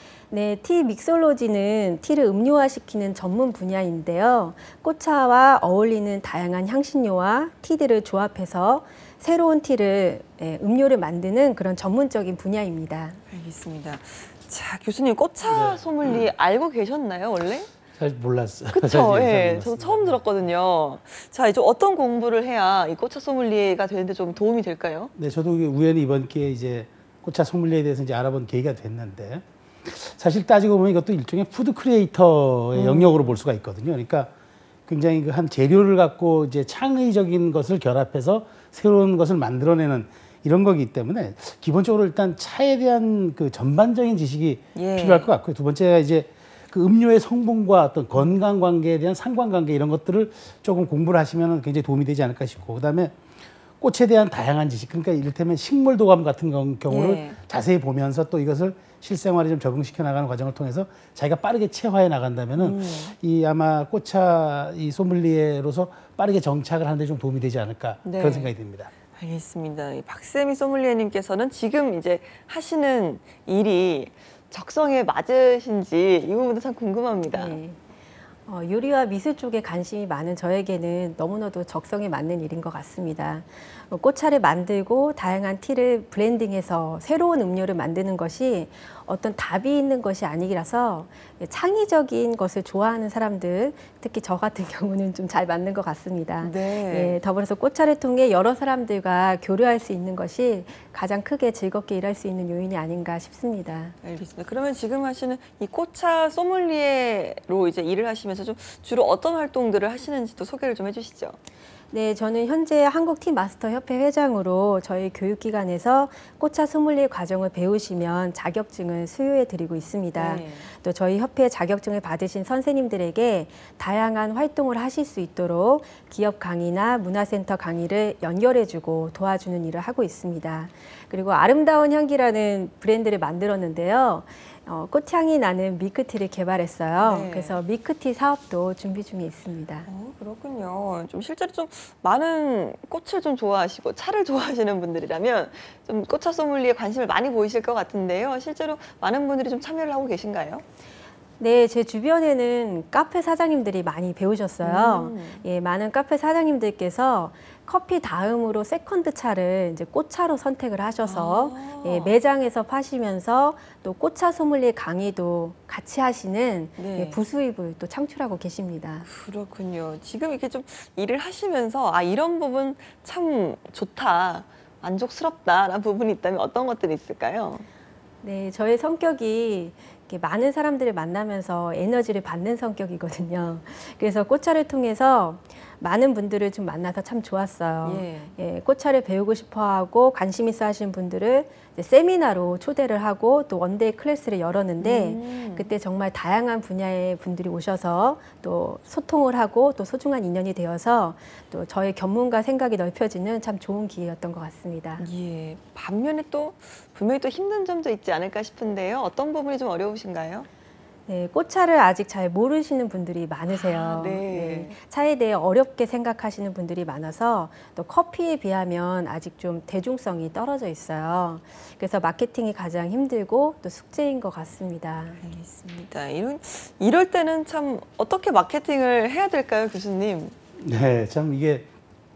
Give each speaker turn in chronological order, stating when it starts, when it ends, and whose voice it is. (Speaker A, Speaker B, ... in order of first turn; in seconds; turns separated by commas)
Speaker A: 0.3-13.2, Speaker B: 13.3-17.7, Speaker C: 15.5-16.2, Speaker C: 18.0-20.2, Speaker B: 18.7-25.1, Speaker C: 25.1-34.3, Speaker B: 32.7-33.3, Speaker C: 34.9-53.1, Speaker B: 44.7-45.3, Speaker C: 53.8-68.9, Speaker B: 56.9-57.4, Speaker B: 62.6-63.1, Speaker B: 68.0-68.5, Speaker B: 69.2-77.6, Speaker A: 77.3-77.8, Speaker A: 78.5-103.9, Speaker B: 96.4-97.2, Speaker B: 104.0-111.4, Speaker A: 111.9-139.9, Speaker B: 120.1-120.7, Speaker B: 137.0-137.6, Speaker B: 139.8-150.6, Speaker A: 151.4-169.1, Speaker B: 154.6-155.4, Speaker B: 161.0-162.1, Speaker B: 166.8-167.2, Speaker B: 169.1-177.7, Speaker A: 178.2-205.0, Speaker B: 187.8-188.3, Speaker B: 194.8-195.7, Speaker B: 205.0-210.5, Speaker A: 211.1-225.2, Speaker B: 213.5-214.8, Speaker B: 225.2-230.3, Speaker C: 230.6-231.7